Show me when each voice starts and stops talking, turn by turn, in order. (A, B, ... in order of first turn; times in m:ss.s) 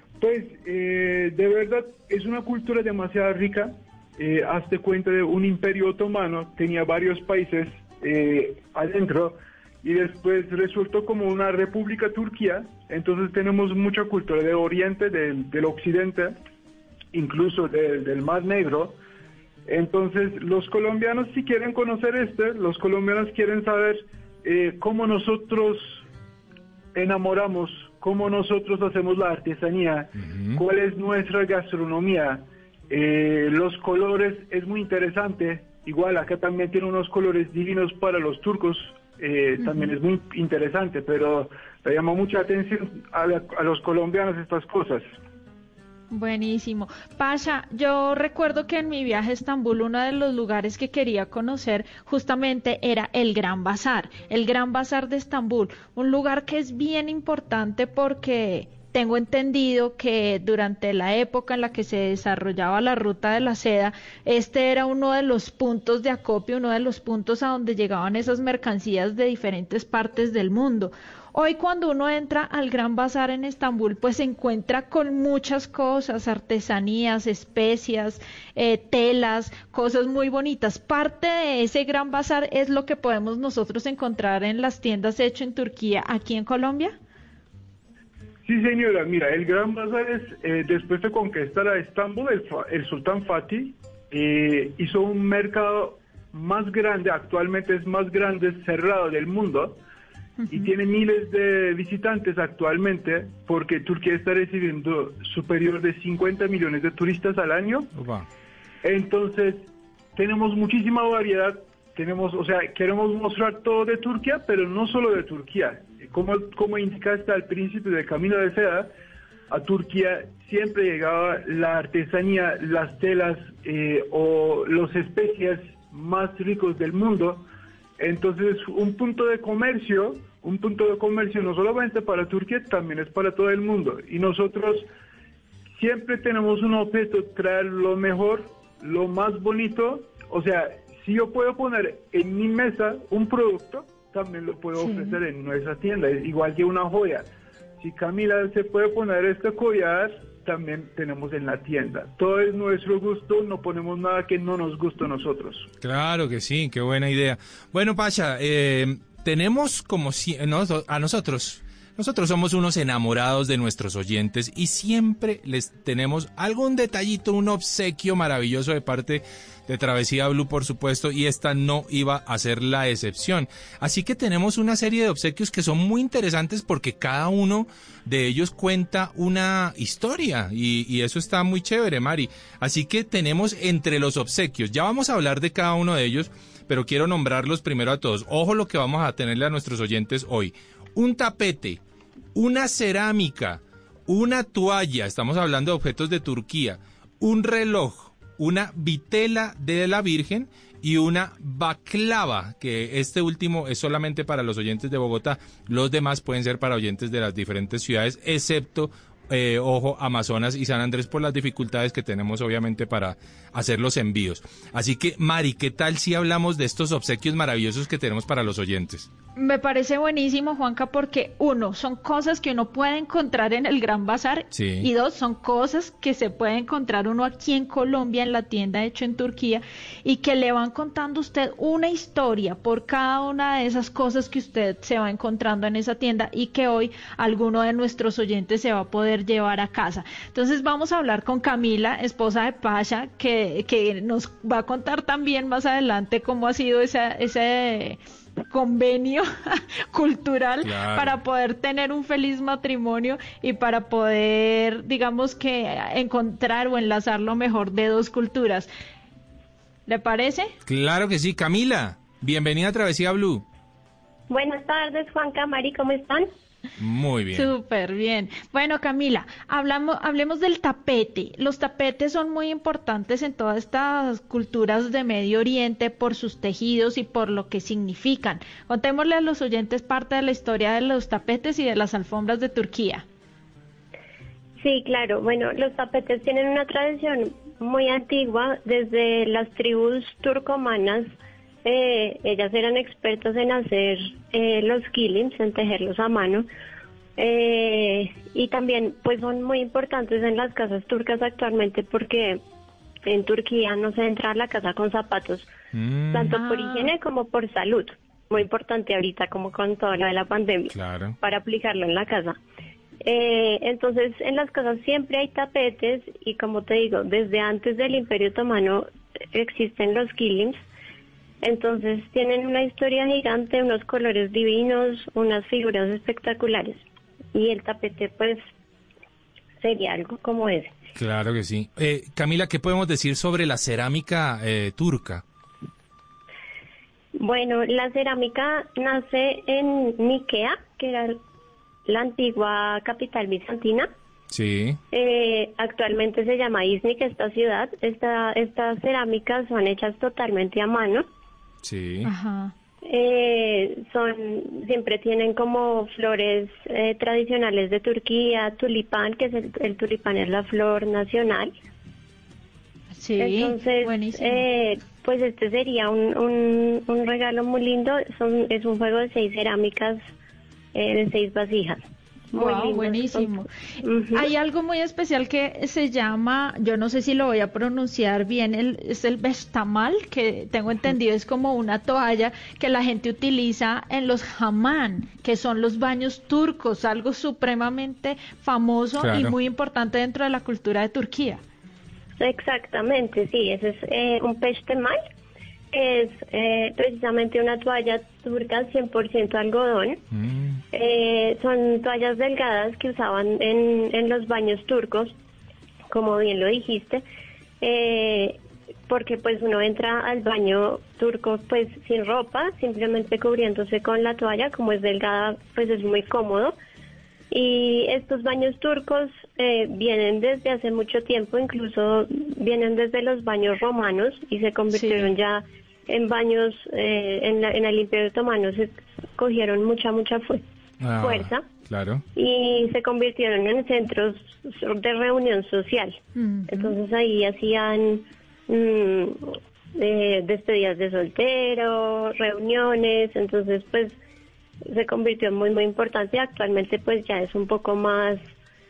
0:00.2-0:16.4 A
0:17.1-0:19.0 A
0:19.7-0:26.0 A
0:26.9-0:45.1 A
0:30.2-0:30.6 B
0:39.6-0:39.9 C
0:46.1-1:26.9 C
1:28.4-1:39.8 A
1:40.4-1:40.7 C
1:40.5-1:47.9 A
1:48.0-1:48.2 B
1:48.8-1:58.9 A
1:59.5-2:07.4 A
2:08.0-2:14.9 A
2:15.8-2:27.3 A
2:24.8-2:25.2 C
2:27.8-2:35.7 A
2:35.8-3:11.8 B
3:12.3-3:39.1 B
3:39.4-4:18.7 C
3:44.5-3:44.9 B
4:10.6-4:11.2 B
4:19.9-4:20.5 C
4:20.6-4:23.4 B
4:24.3-4:26.3 D
4:26.8-4:27.5 B
4:27.3-4:43.0 C
4:44.6-4:51.1 D
4:51.6-4:56.5 D
4:57.2-5:02.4 D
5:03.0-5:05.5 D
5:05.7-5:06.3 B
5:06.1-5:12.4 D
5:06.3-5:06.9 C
5:10.7-5:11.2 B
5:13.0-5:20.6 D
5:21.4-5:26.8 D
5:27.3-5:28.4 D
5:29.6-5:30.7 D
5:31.0-5:35.2 B
5:37.2-5:41.2 D
5:41.8-5:43.9 D
5:44.3-5:44.8 B
5:44.9-5:51.0 D
5:51.6-5:52.1 B
5:52.0-5:52.5 C
5:52.8-6:01.5 D
6:02.9-6:04.4 C
6:03.2-6:10.0 D
6:10.7-6:14.3 D
6:12.4-6:13.5 C
6:14.1-6:31.4 C
6:29.0-6:29.3 B
6:32.2-6:35.0 D
6:35.7-6:40.0 D
6:40.1-6:40.6 B
6:40.7-6:45.1 D
6:45.9-6:47.0 D
6:47.6-6:56.6 D
6:57.3-7:10.4 D
7:04.7-7:05.1 C
7:10.8-7:12.0 B
7:11.0-7:11.4 D
7:12.2-7:24.0 D
7:16.2-7:16.7 C
7:24.6-7:28.2 D